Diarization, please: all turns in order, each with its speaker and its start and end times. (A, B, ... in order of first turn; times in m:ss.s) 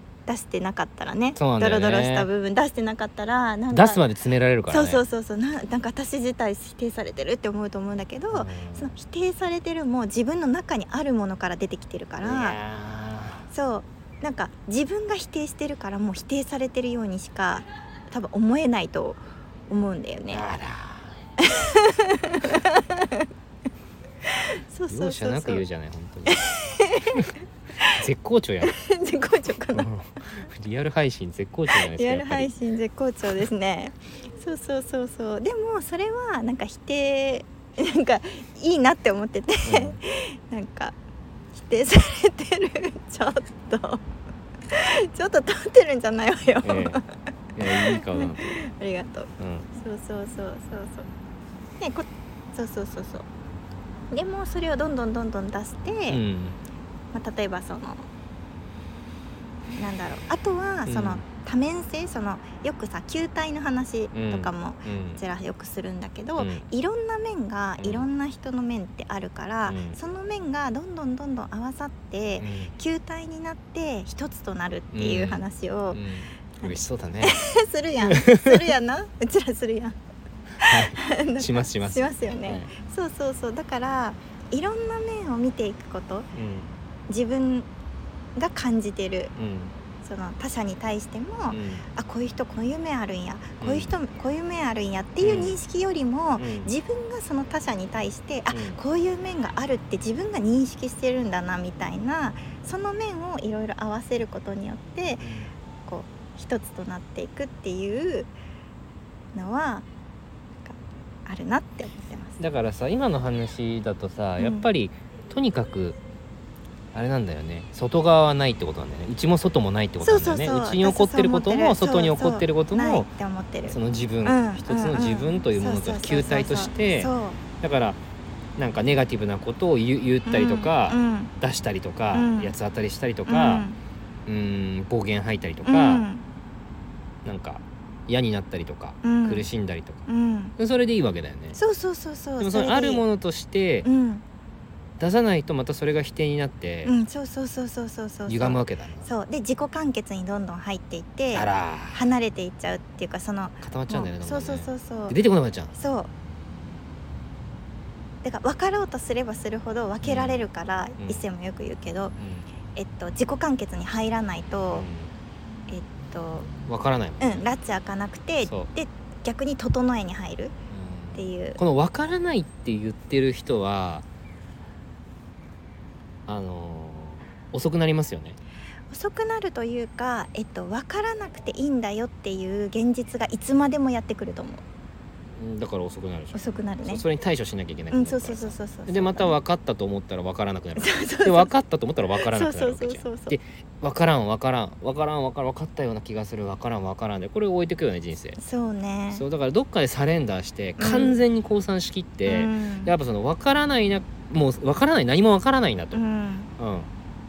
0:00.3-0:04.0 A
0:01.4-0:02.3 B
0:03.7-0:05.0 B
0:04.7-0:12.6 A
0:08.3-0:08.9 B
0:12.2-0:13.5 B
0:13.5-0:20.5 A
0:20.3-0:21.2 B
0:21.4-0:23.3 A
0:24.3-0:25.6 A
0:24.9-0:26.5 B
0:26.3-0:28.0 A
0:27.8-0:28.8 B
0:28.6-0:29.9 A
0:29.7-0:32.5 B
0:31.7-0:41.0 A
0:39.7-0:40.0 B
0:41.6-0:44.0 A
0:44.7-0:47.1 A
0:46.6-0:47.0 B
0:47.6-0:48.6 B
0:47.6-0:51.1 A
0:49.4-0:49.7 B
0:51.8-0:53.3 A
0:54.1-0:56.2 A
0:56.1-0:56.6 B
0:57.1-0:58.1 A
0:59.7-1:16.0 A
1:00.9-1:01.2 B
1:04.1-1:05.2 B
1:06.4-1:06.6 B
1:07.8-1:08.1 B
1:09.7-1:10.0 B
1:12.4-1:12.7 B
1:14.9-1:17.4 B
1:16.6-1:20.0 A
1:18.0-1:18.7 B
1:20.6-1:26.3 A
1:20.6-1:22.7 B
1:26.3-1:26.7 B
1:27.1-1:27.7 A
1:28.4-1:29.3 A
1:29.4-1:29.8 B
1:30.0-1:45.3 A
1:31.5-1:31.8 B
1:33.6-1:33.9 B
1:35.2-1:35.6 B
1:36.4-1:36.7 B
1:38.5-1:38.8 B
1:45.2-1:45.5 B
1:45.8-1:48.3 A
1:49.3-1:49.9 A
1:50.6-1:52.4 A
1:52.4-1:56.0 B
1:54.4-1:54.7 A
1:56.9-2:03.1 B
2:00.0-2:07.4 A
2:03.7-2:08.0 B
2:08.6-2:13.7 B
2:10.3-2:11.3 A
2:12.1-2:12.5 A
2:13.3-2:13.8 A
2:14.3-2:16.1 B
2:15.6-2:16.2 A
2:17.2-2:20.0 B
2:19.0-2:19.5 A
2:20.1-2:20.5 A
2:20.6-2:21.6 B
2:21.6-2:23.0 A
2:22.4-2:23.9 B
2:23.8-2:24.2 A
2:25.0-2:26.9 B
2:26.8-2:35.2 A
2:28.3-2:29.1 B
2:31.3-2:32.1 B
2:33.6-2:35.7 B
2:35.8-2:36.1 A
2:38.2-2:42.2 A
2:40.0-2:40.4 B
2:41.0-2:41.2 B
2:42.2-2:42.5 B
2:42.7-2:44.9 A
2:44.7-2:45.1 B
2:45.7-2:46.5 A
2:46.7-2:47.4 B
2:47.2-2:50.5 A
2:48.4-2:48.7 B
2:50.7-2:54.1 B
2:51.1-2:51.6 A
2:56.3-2:58.4 B
2:58.9-3:04.6 A
3:05.4-3:18.4 B
3:06.3-3:07.0 A
3:07.9-3:09.4 A
3:10.8-3:11.5 A
3:12.2-3:13.4 A
3:18.4-3:19.2 A
3:19.1-3:26.0 B
3:20.8-3:21.2 A
3:22.3-3:22.9 A
3:25.9-3:26.5 A
3:26.6-3:26.9 B